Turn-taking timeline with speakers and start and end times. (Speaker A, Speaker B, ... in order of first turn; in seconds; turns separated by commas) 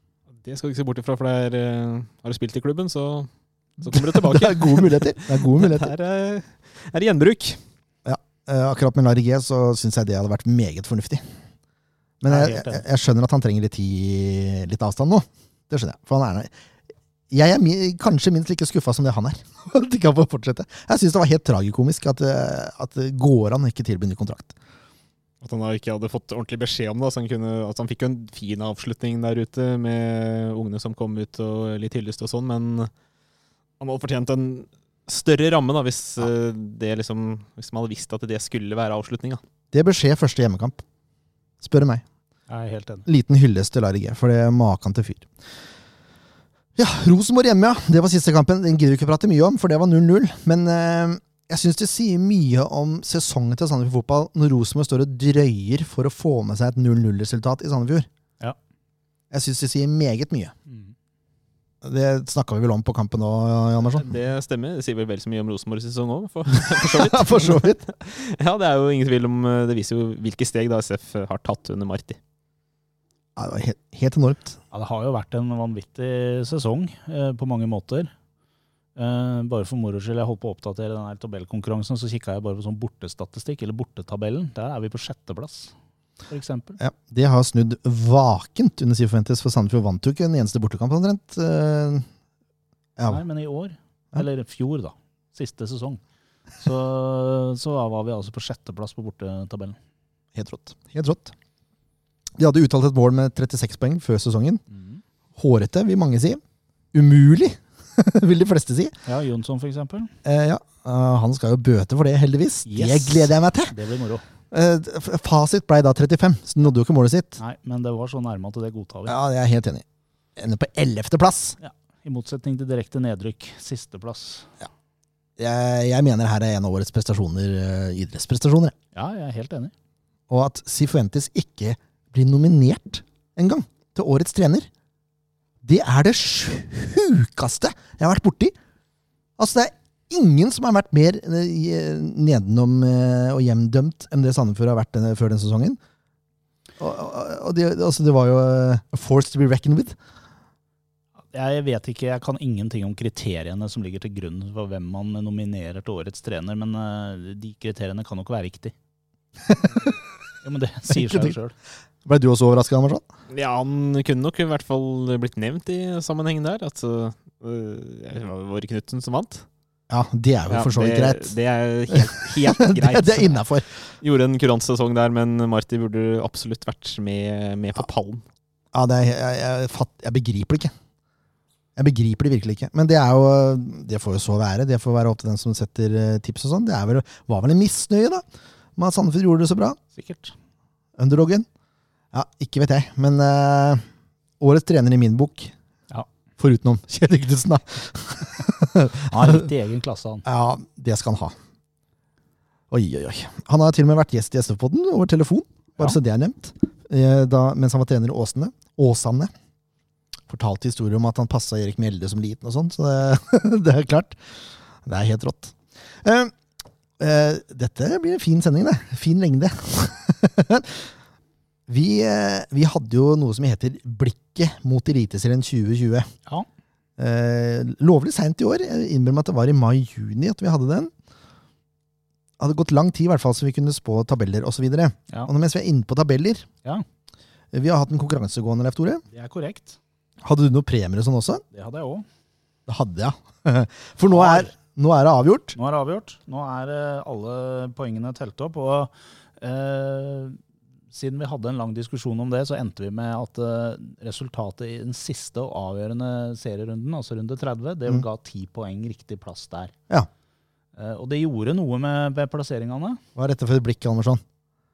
Speaker A: 0.4-3.3, Speaker A: 3.8-7.6, Speaker B: 3.8-5.9, Speaker B: 8.1-11.2, Speaker B: 12.2-16.5, Speaker C: 12.3-12.8, Speaker B: 17.3-24.5, Speaker A: 25.4-32.9, Speaker A: 33.8-39.4, Speaker B: 39.7-40.8, Speaker B: 41.6-42.0, Speaker C: 42.5-43.1, Speaker B: 43.1-45.3, Speaker B: 46.8-58.1, Speaker B: 59.3-60.5, Speaker C: 60.7-60.9, Speaker B: 61.8-64.1, Speaker A: 63.9-72.2, Speaker B: 66.5-67.8, Speaker B: 73.4-74.6, Speaker C: 74.7-78.1, Speaker C: 79.0-85.7, Speaker C: 86.3-86.8, Speaker B: 86.8-92.1, Speaker B: 93.0-93.2, Speaker C: 93.1-96.0, Speaker C: 96.6-99.8, Speaker B: 100.3-101.3, Speaker B: 102.4-104.6, Speaker C: 104.7-105.0, Speaker B: 105.4-106.4, Speaker B: 106.9-109.0, Speaker C: 109.1-110.1, Speaker B: 110.2-113.8, Speaker C: 112.7-114.2, Speaker B: 114.5-117.4, Speaker C: 117.4-119.2, Speaker B: 119.1-119.8, Speaker B: 120.4-121.6, Speaker C: 121.6-124.5, Speaker B: 125.4-128.8, Speaker C: 128.9-129.7, Speaker B: 130.3-134.7, Speaker B: 135.6-138.6, Speaker B: 139.4-145.8, Speaker B: 146.8-150.0, Speaker C: 151.3-158.7, Speaker C: 160.4-161.5, Speaker B: 160.9-161.3, Speaker B: 162.1-163.0, Speaker A: 163.3-169.4, Speaker B: 169.9-171.3, Speaker A: 170.5-173.4, Speaker B: 171.9-173.7, Speaker A: 174.0-178.2, Speaker B: 178.7-180.7, Speaker B: 181.8-188.2, Speaker B: 188.8-189.8, Speaker C: 189.9-190.3, Speaker B: 191.0-191.5, Speaker B: 192.1-193.8, Speaker B: 194.4-195.5, Speaker B: 196.4-199.5, Speaker C: 199.1-200.2, Speaker B: 200.2-201.3, Speaker B: 202.7-209.3, Speaker B: 210.3-214.2, Speaker B: 214.8-216.3, Speaker B: 217.0-220.9, Speaker B: 221.7-226.1, Speaker B: 227.0-230.9, Speaker B: 232.4-236.5, Speaker B: 237.5-239.0, Speaker C: 239.1-239.8, Speaker B: 240.2-241.4, Speaker C: 241.5-242.1, Speaker B: 242.7-245.6, Speaker C: 244.1-244.5, Speaker C: 245.6-250.4, Speaker C: 250.9-259.7, Speaker C: 260.8-263.0, Speaker B: 263.2-264.2